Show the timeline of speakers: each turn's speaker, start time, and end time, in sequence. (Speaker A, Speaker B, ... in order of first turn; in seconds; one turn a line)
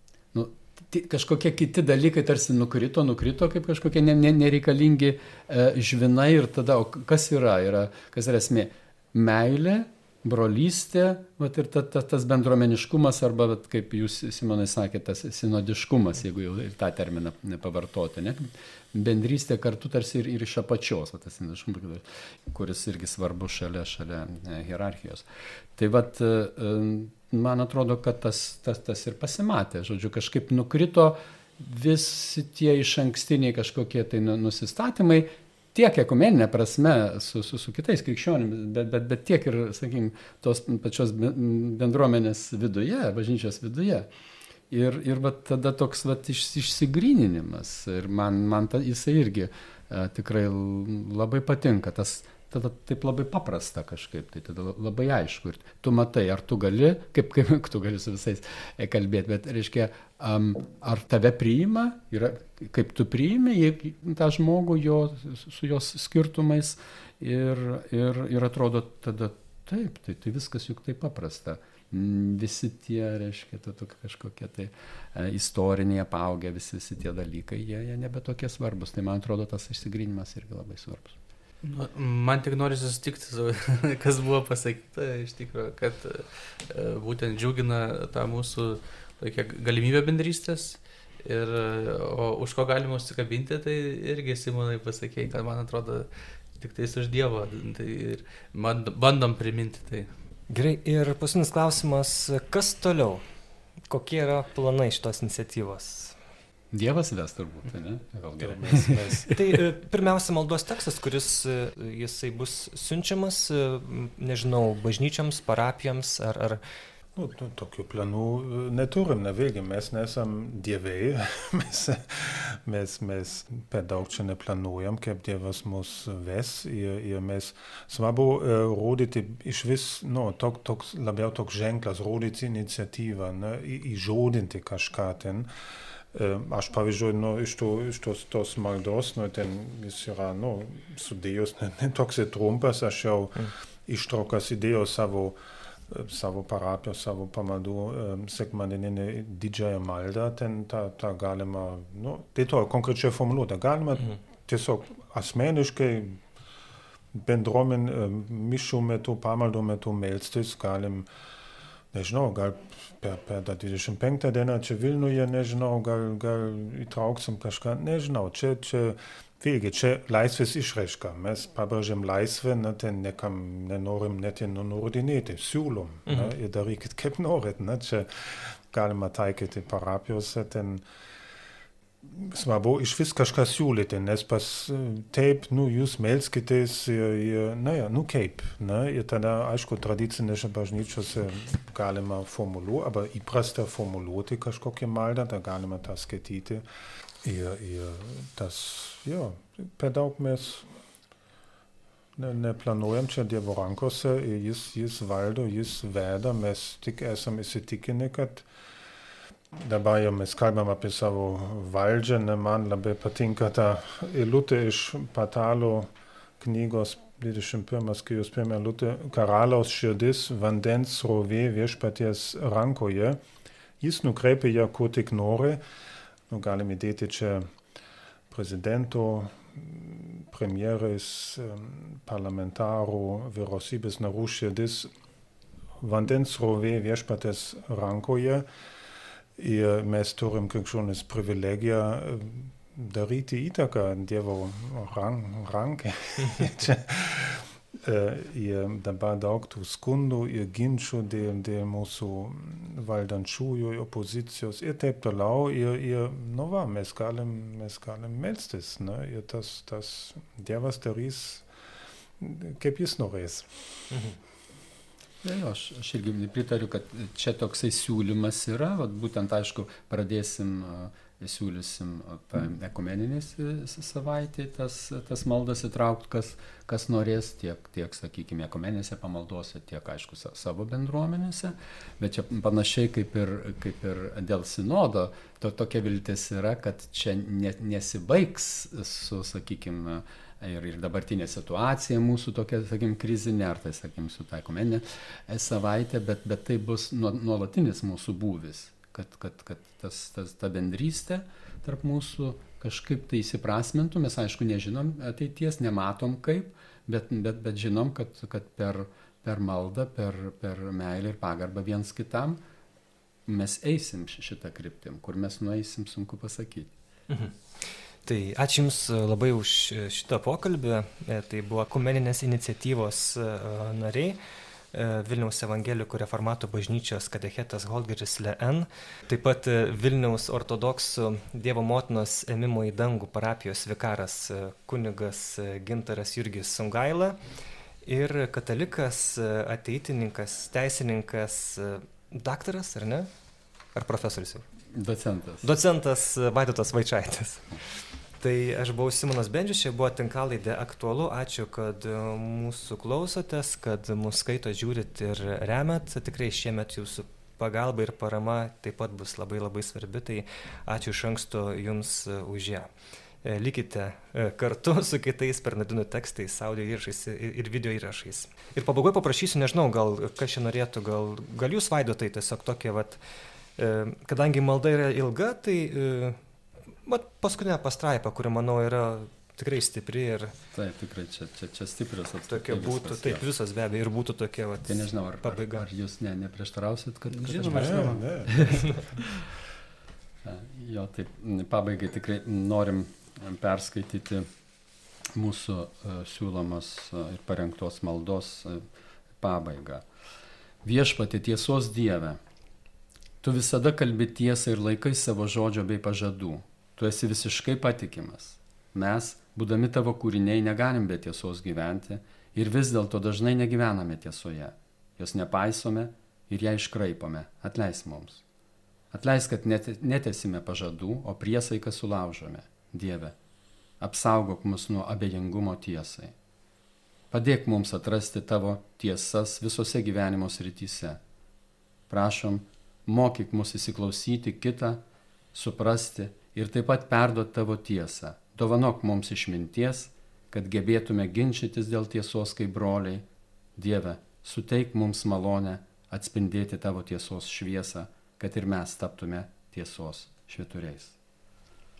Speaker A: 0.3-44.1
Speaker A: 44.7-81.2
Speaker B: 81.6-100.1
Speaker C: 100.5-103.2
Speaker C: 103.9-106.2
Speaker A: 106.7-109.2
Speaker D: 108.4-109.6
Speaker C: 109.3-116.6
Speaker D: 117.2-135.5
Speaker D: 136.1-156.2
Speaker D: 157.1-161.1
Speaker D: 161.9-180.8
Speaker D: 182.1-196.6
Speaker D: 197.2-200.7
Speaker D: 202.2-208.4
Speaker D: 209.6-223.2
Speaker D: 223.8-225.6
Speaker D: 226.3-227.5
Speaker D: 228.3-234.9
Speaker D: 235.8-238.4
Speaker D: 239.4-261.4
Speaker D: 262.2-263.5
Speaker A: 265.2-312.4
Speaker A: 313.3-316.7
Speaker C: 317.1-324.2
Speaker C: 324.7-337.2
Speaker C: 337.9-343.1
Speaker C: 343.7-344.4
Speaker A: 344.7-345.4
Speaker C: 345.4-362.7
Speaker C: 363.2-373.0
Speaker C: 373.6-376.2
Speaker C: 376.9-380.4
Speaker A: 380.5-383.2
Speaker C: 382.3-385.6
Speaker A: 384.7-389.2
Speaker B: 387.1-388.1
Speaker D: 387.4-389.0
Speaker A: 390.2-394.3
Speaker A: 395.1-398.7
Speaker A: 399.2-399.9
Speaker A: 400.6-402.2
Speaker A: 403.2-418.2
Speaker A: 418.9-423.1
Speaker A: 423.8-426.1
Speaker A: 427.1-431.0
Speaker A: 431.9-434.8
Speaker A: 435.3-443.1
Speaker A: 443.6-450.9